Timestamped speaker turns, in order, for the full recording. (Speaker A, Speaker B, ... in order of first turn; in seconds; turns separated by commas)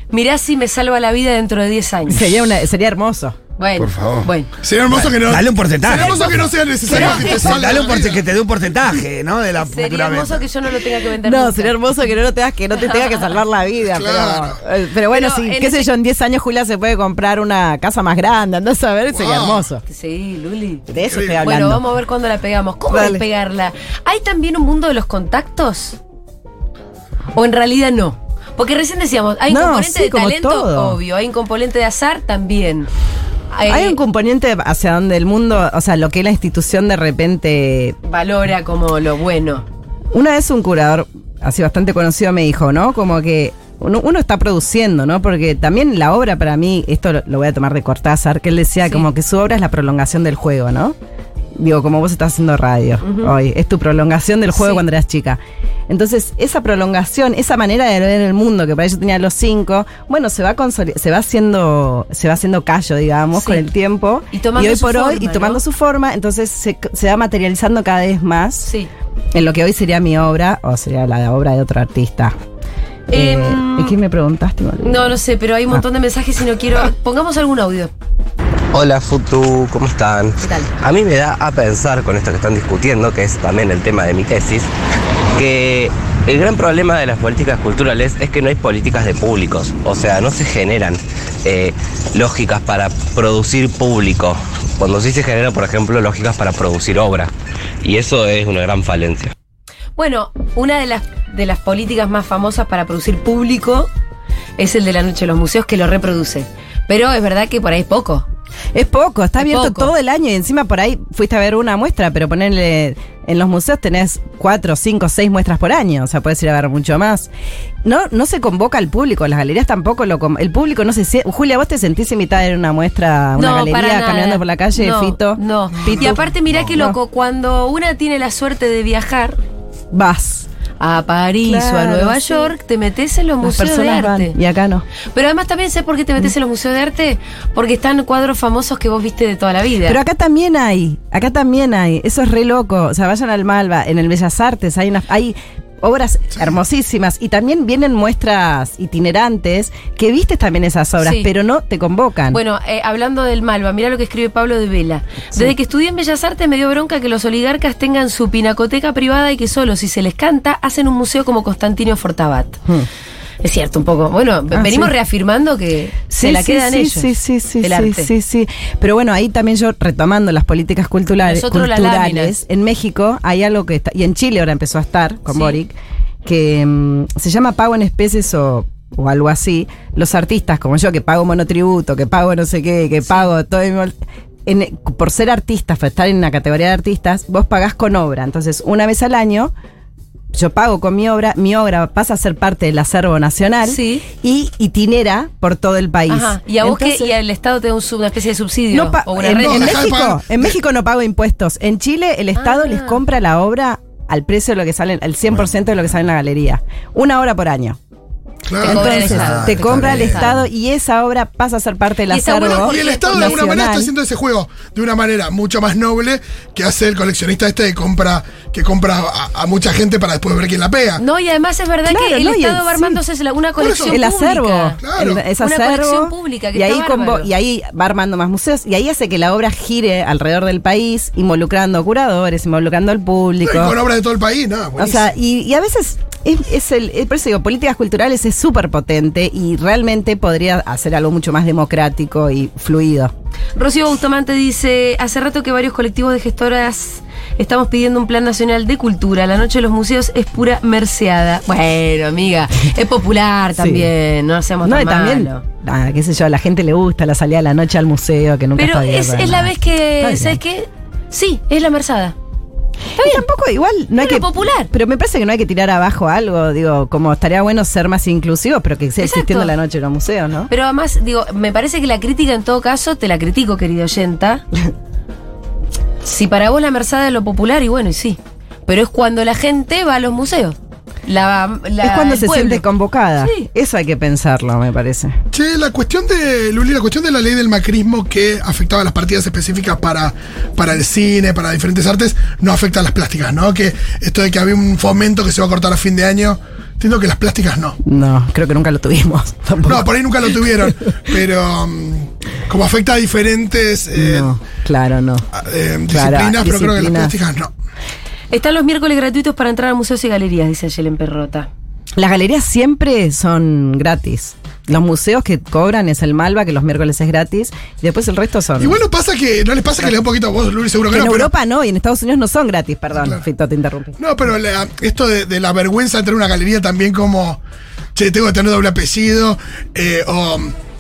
Speaker A: 0.1-2.3, Speaker B: 2.1-3.4, Speaker A: 3.6-4.5, Speaker C: 3.8-4.3, Speaker D: 4.6-8.2, Speaker C: 4.9-10.5, Speaker A: 6.9-7.8, Speaker A: 9.6-11.9, Speaker B: 11.2-19.8, Speaker A: 12.8-13.3, Speaker D: 13.9-14.6, Speaker A: 15.1-15.9, Speaker D: 19.1-19.7, Speaker A: 19.9-20.9, Speaker B: 20.9-21.8, Speaker D: 21.0-21.5, Speaker A: 21.4-26.0, Speaker B: 22.9-23.2, Speaker A: 27.3-32.9, Speaker B: 29.5-31.0, Speaker A: 33.5-34.0, Speaker B: 33.7-38.0, Speaker A: 38.0-39.6, Speaker B: 40.1-51.0, Speaker B: 51.5-68.7, Speaker A: 53.0-53.3, Speaker A: 54.5-54.9, Speaker A: 63.3-63.6, Speaker A: 64.3-65.6, Speaker A: 68.6-68.9, Speaker B: 69.3-72.3, Speaker A: 73.1-74.0, Speaker B: 73.1-75.1, Speaker A: 74.8-77.9, Speaker E: 78.7-84.7, Speaker A: 80.4-80.7, Speaker E: 85.3-97.3, Speaker E: 97.8-99.3, Speaker A: 100.0-103.9, Speaker A: 104.6-108.3, Speaker B: 108.7-117.3, Speaker A: 109.4-109.9, Speaker B: 117.8-127.0, Speaker A: 123.3-129.4, Speaker D: 125.8-126.2, Speaker B: 129.9-130.5, Speaker A: 130.8-134.4, Speaker B: 131.4-132.6, Speaker B: 133.4-134.8, Speaker A: 135.1-140.0, Speaker B: 139.8-152.4, Speaker A: 151.0-151.3, Speaker A: 152.3-162.6, Speaker A: 163.4-168.1, Speaker B: 164.5-164.9, Speaker B: 166.1-175.7, Speaker A: 171.2-172.4, Speaker A: 175.3-175.6, Speaker B: 176.2-183.9, Speaker B: 184.5-189.5, Speaker B: 190.3-197.1, Speaker A: 193.7-194.1, Speaker A: 196.1-199.8, Speaker B: 198.7-207.8, Speaker D: 199.4-200.6, Speaker A: 202.4-203.0, Speaker D: 208.5-209.3, Speaker B: 208.6-213.9, Speaker A: 208.6-210.4, Speaker C: 208.9-210.4, Speaker A: 212.1-213.5, Speaker D: 212.5-221.0, Speaker A: 221.0-224.8, Speaker B: 221.9-223.0, Speaker D: 223.6-224.0, Speaker B: 223.8-233.8, Speaker D: 224.8-225.2, Speaker A: 225.4-227.3, Speaker D: 233.4-235.1, Speaker B: 234.8-243.1, Speaker A: 243.6-255.4, Speaker B: 253.6-253.9, Speaker B: 254.6-260.4, Speaker A: 258.6-262.1, Speaker A: 263.0-263.2, Speaker B: 263.0-270.5, Speaker A: 264.0-264.7, Speaker A: 269.0-269.5, Speaker A: 270.5-274.4, Speaker A: 276.0-282.6, Speaker B: 281.8-285.2, Speaker A: 283.2-283.5, Speaker D: 285.3-297.8, Speaker B: 297.8-299.9, Speaker D: 299.6-304.3, Speaker B: 300.5-300.7, Speaker B: 303.9-305.2, Speaker D: 305.3-307.5, Speaker B: 305.9-307.1, Speaker A: 308.3-311.5, Speaker B: 311.9-318.8, Speaker D: 318.6-321.3, Speaker B: 320.9-324.0, Speaker D: 324.0-327.4, Speaker D: 327.9-330.6